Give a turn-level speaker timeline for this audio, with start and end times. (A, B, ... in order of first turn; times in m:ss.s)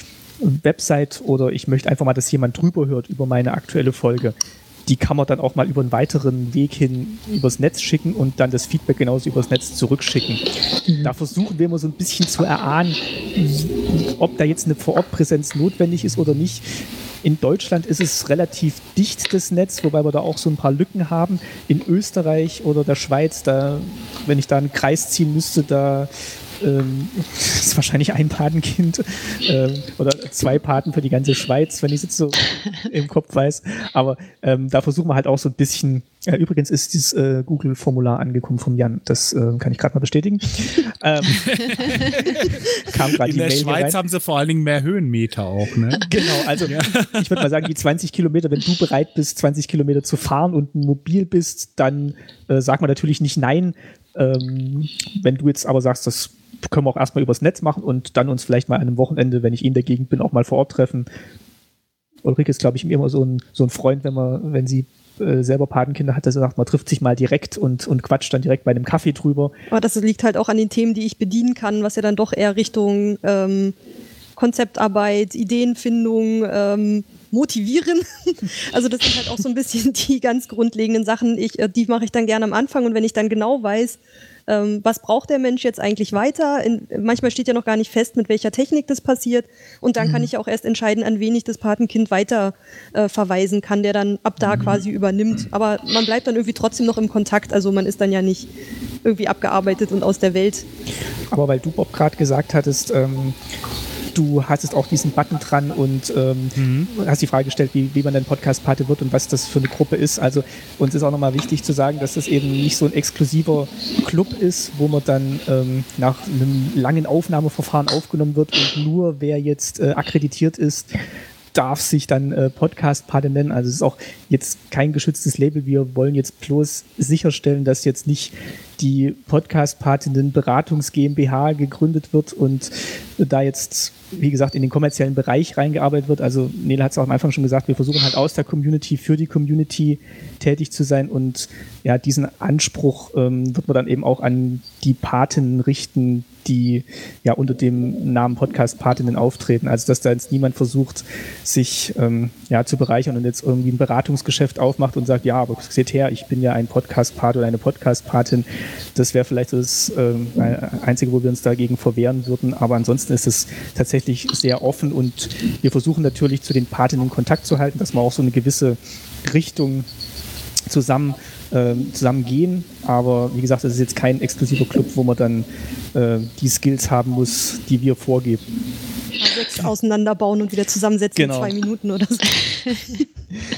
0:00.4-0:10.4 A
0:11.0-0:16.6 A
0:17.2-0:26.1 A
0:26.6-0:41.9 A
0:41.5-0:46.1 B
0:42.8-0:43.9 A
0:46.0-1:01.1 A
0:46.6-0:47.5 B
1:02.2-1:09.5 A
1:09.7-1:13.7 C
1:14.4-1:38.5 C
1:39.0-1:40.6 C
1:41.3-1:43.4 A
1:44.1-2:00.9 A
1:46.6-1:46.9 B
2:01.5-2:49.9 A
2:50.7-2:58.4 A
2:59.2-3:02.8 C
3:01.2-3:01.5 A